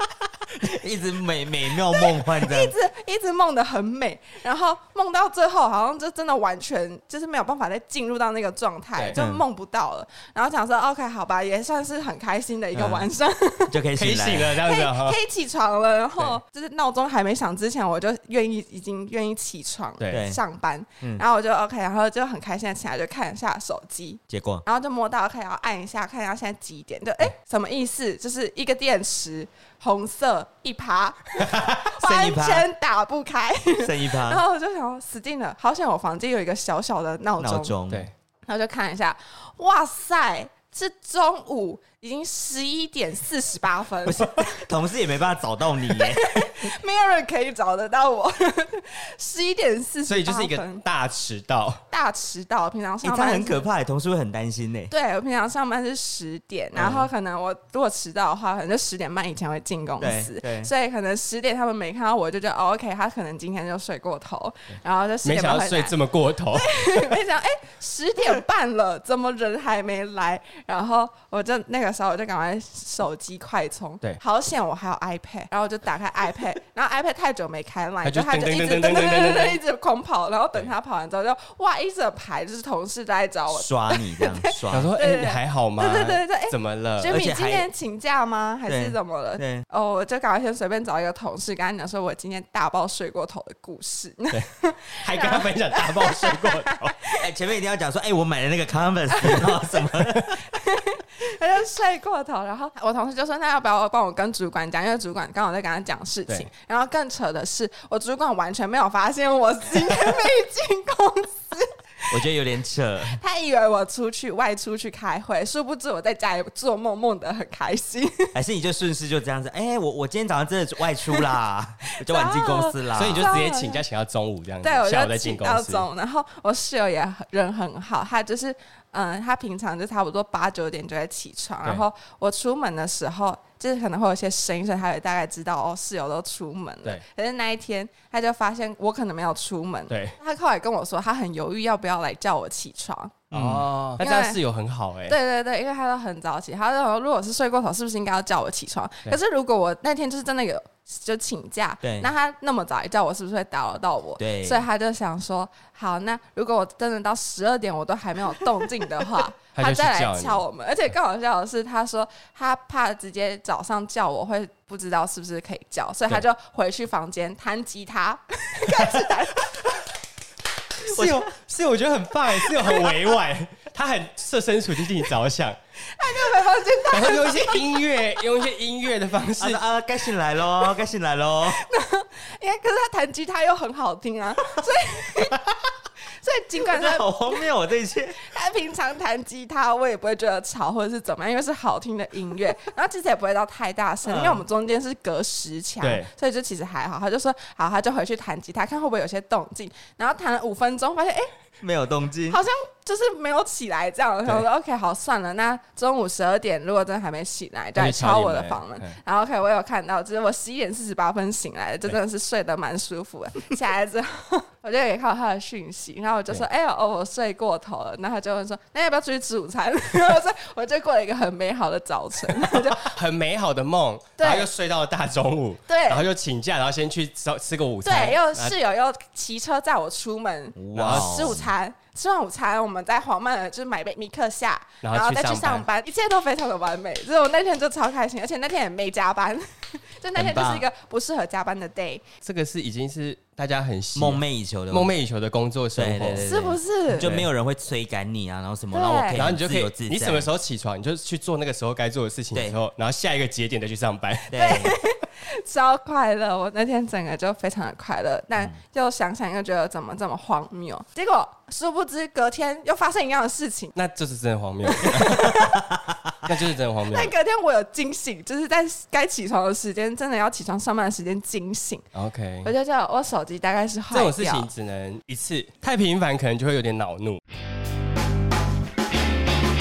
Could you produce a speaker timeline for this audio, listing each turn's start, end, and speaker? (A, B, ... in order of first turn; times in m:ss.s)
0:00.5-0:02.7 A
0:01.9-0:13.8 B
0:09.2-0:09.4 A
0:12.8-0:13.1 A
0:13.7-0:14.6 A
0:14.0-0:15.2 C
0:14.6-0:37.8 B
0:20.0-0:20.3 C
0:20.1-0:20.4 A
0:24.3-0:24.6 A
0:31.4-0:32.7 A
0:33.8-0:34.4 A
0:37.4-0:38.1 A
0:38.5-0:44.5 B
0:44.0-0:46.6 A
0:45.9-0:50.8 B
0:50.1-0:51.8 C
0:51.9-0:53.6 B
0:53.0-0:54.9 A
0:54.9-1:06.0 B
0:56.8-0:57.1 A
1:00.0-1:00.7 A
1:05.2-1:06.7 C
1:06.5-1:37.2 B
1:18.0-1:19.6 C
1:23.5-1:24.9 A
1:24.7-1:27.1 C
1:27.0-1:27.7 A
1:28.7-1:29.6 A
1:35.0-1:36.9 C
1:37.2-1:40.4 A
1:39.1-1:39.7 B
1:40.4-1:52.2 B
1:52.1-1:53.2 A
1:53.1-1:58.4 B
1:58.4-2:03.4 A
2:01.9-2:03.8 B
2:02.9-2:05.9 C
2:04.6-2:23.2 B
2:19.9-2:20.2 C
2:23.3-2:23.7 A
2:23.3-2:25.2 C
2:24.0-2:24.4 B
2:25.1-2:49.5 B
2:31.8-2:32.1 A
2:34.2-2:34.7 A
2:39.6-2:40.4 C
2:48.7-2:49.0 C
2:50.8-2:55.6 C
2:50.9-2:51.3 A
2:55.9-2:58.0 B
2:56.9-2:59.6 C
2:59.4-3:01.6 A
3:01.5-3:05.4 B
3:06.1-3:07.4 B
3:06.6-3:08.2 A
3:08.2-3:21.3 B
3:14.1-3:14.4 A
3:15.8-3:16.1 C
3:21.6-3:22.4 A
3:22.3-3:42.9 B
3:27.8-3:29.0 C
3:42.4-3:48.6 C
3:44.2-3:44.5 B
3:45.7-3:46.1 B
3:47.8-4:02.1 B
3:50.6-3:51.5 A
3:50.8-3:51.4 C
3:54.8-3:55.6 C
4:00.2-4:00.7 A
4:02.2-4:06.3 C
4:04.0-4:04.9 A
4:05.8-4:10.3 A
4:06.2-4:07.1 B
4:07.0-4:07.3 C
4:08.7-4:09.2 B
4:09.2-4:14.3 C
4:14.3-4:14.8 A
4:14.3-4:23.8 B
4:23.8-4:25.4 C
4:24.7-4:25.6 B
4:25.7-4:26.2 A
4:26.2-4:27.1 C
4:26.9-4:31.9 B
4:31.9-4:32.5 C
4:32.4-4:34.5 B
4:33.9-4:37.2 C